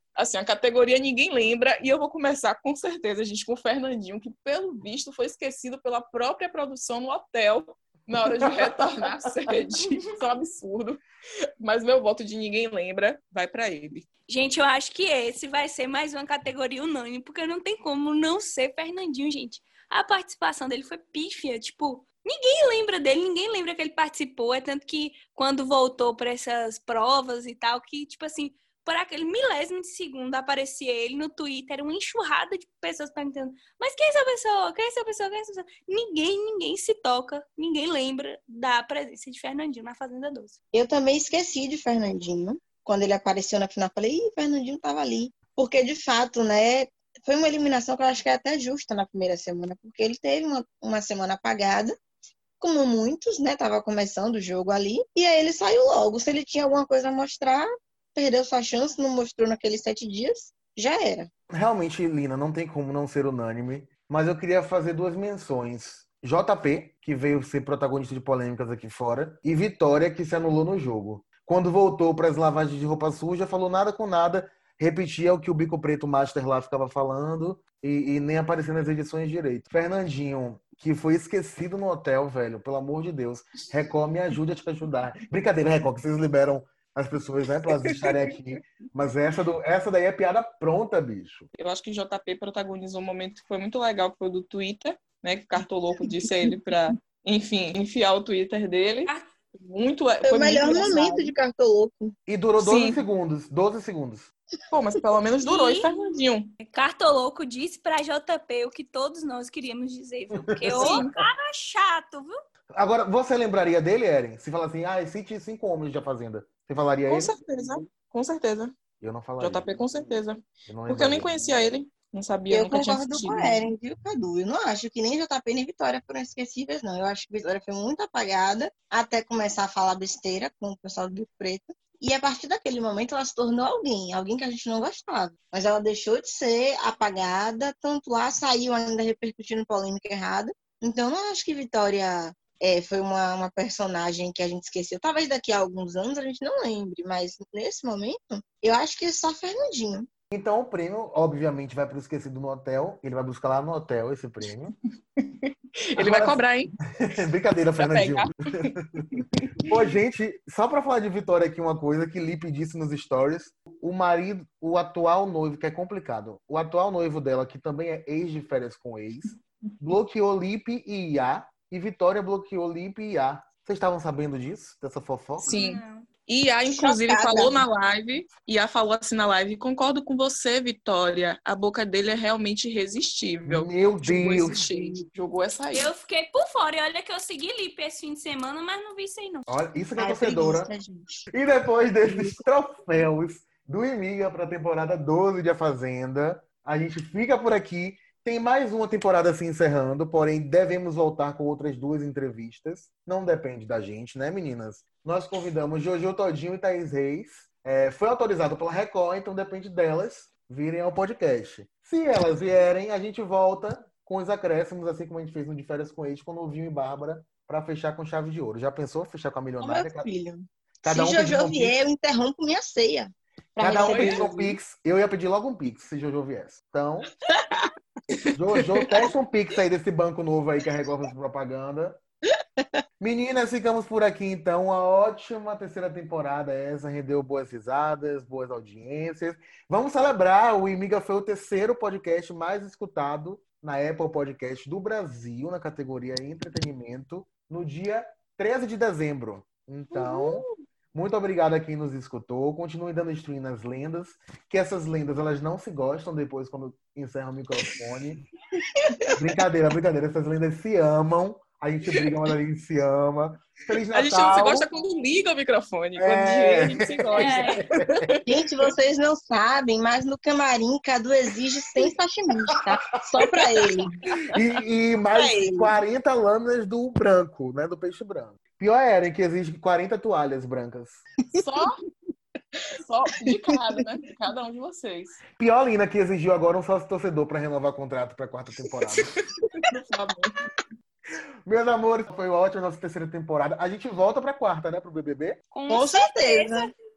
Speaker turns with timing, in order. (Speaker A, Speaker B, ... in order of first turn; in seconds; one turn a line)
Speaker A: 0.1-11.0
Speaker B: 8.2-9.3
Speaker A: 11.6-14.1
Speaker C: 14.3-40.5
Speaker D: 40.7-52.0
Speaker D: 52.6-61.3
Speaker B: 61.5-91.5
Speaker A: 91.5-101.3
Speaker D: 100.2-102.1
Speaker B: 102.3-104.3
Speaker A: 102.6-103.0
Speaker A: 104.7-106.5
Speaker C: 105.4-105.9
Speaker C: 106.6-112.3
Speaker B: 110.4-111.0
Speaker A: 110.7-111.2
Speaker B: 112.7-117.3
Speaker A: 117.1-118.7
Speaker B: 119.0-119.7
Speaker A: 119.4-123.7
Speaker B: 120.7-121.6
Speaker D: 122.5-150.1
Speaker B: 150.3-154.7
Speaker A: 155.2-156.7
Speaker B: 155.9-156.4
Speaker B: 156.9-175.5
Speaker A: 157.8-159.7
Speaker A: 175.4-185.9
Speaker C: 175.5-176.1
Speaker D: 176.7-177.6
Speaker B: 183.4-184.8
Speaker C: 185.7-189.4
Speaker B: 189.5-190.7
Speaker D: 190.0-191.2
Speaker B: 191.3-220.1
Speaker D: 192.1-192.4
Speaker D: 219.6-224.5
Speaker B: 220.8-221.7
Speaker B: 223.6-227.1
Speaker A: 223.6-224.5
Speaker B: 228.3-232.0
Speaker A: 228.5-228.9
Speaker D: 232.4-232.8
Speaker B: 233.0-258.2
Speaker B: 259.1-264.7
Speaker A: 263.9-268.2
Speaker B: 266.0-268.1
Speaker C: 267.1-267.6
Speaker D: 268.2-273.9
Speaker B: 274.3-281.0
Speaker D: 275.1-275.7
Speaker A: 281.3-281.8
Speaker A: 282.8-285.2
Speaker B: 285.4-289.1
Speaker D: 289.4-290.2
Speaker B: 291.4-295.4
Speaker C: 295.5-296.7
Speaker D: 295.7-296.7